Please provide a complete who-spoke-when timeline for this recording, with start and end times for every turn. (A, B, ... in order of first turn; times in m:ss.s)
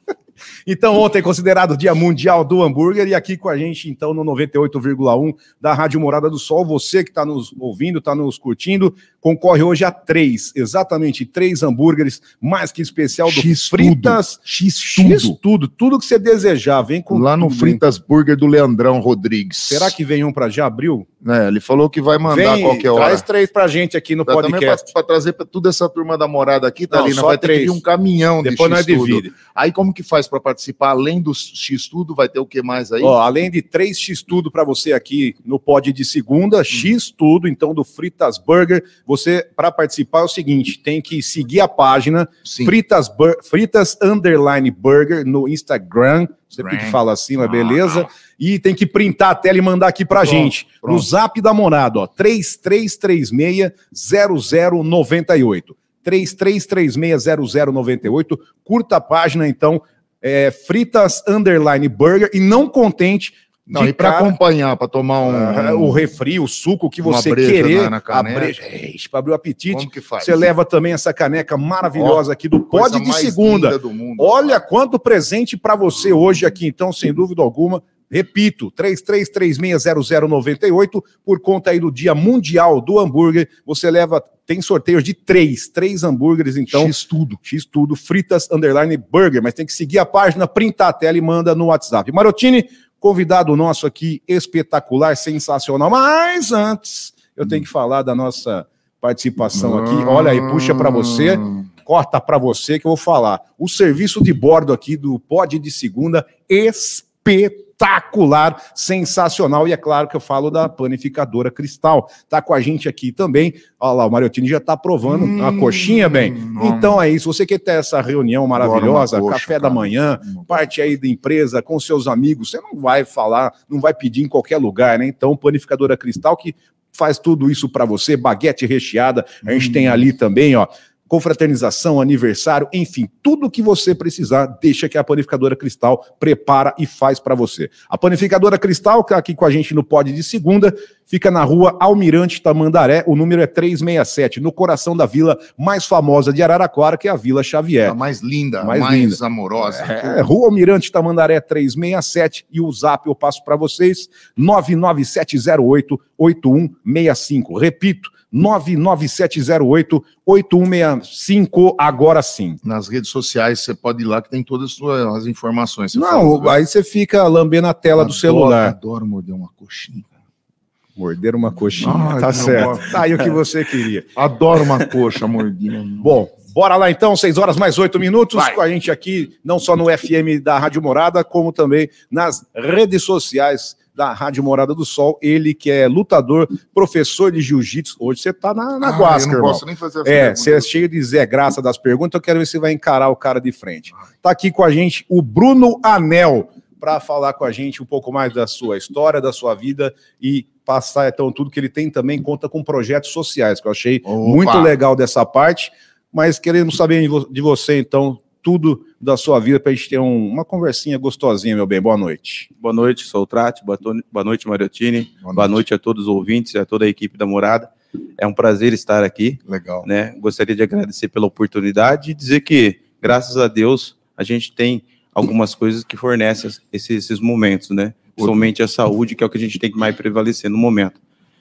0:00.6-0:17.8 A
0:13.2-0:15.4 B
0:17.1-0:19.9 B
0:19.6-0:21.1 A
0:21.2-0:23.2 B
0:22.3-0:24.9 A
0:24.2-0:33.1 B
0:26.9-0:27.8 A
0:28.4-0:29.3 A
0:33.0-1:04.4 A
0:42.4-0:42.7 B
0:46.6-0:47.9 B
0:50.1-0:51.1 B
1:03.7-1:06.0 B
1:05.2-2:28.0 A
1:07.0-1:08.6 B
1:09.7-1:10.5 B
1:12.0-1:14.6 B
1:26.7-1:27.4 B
1:39.6-1:41.5 B
1:55.1-1:57.0 B
1:58.6-2:00.7 B
2:09.5-2:10.0 B
2:27.8-2:30.2 B
2:28.6-2:42.6 A
2:42.6-2:46.5 B
2:45.9-2:48.8 A
2:48.0-2:50.1 B
2:51.0-2:54.1 A
2:51.8-2:53.0 B
2:54.1-2:56.1 B
2:56.0-3:32.5 A
3:08.8-3:10.7 B
3:24.0-3:24.7 B
3:32.6-3:51.0 C
3:35.2-3:35.6 B
3:39.4-3:39.9 B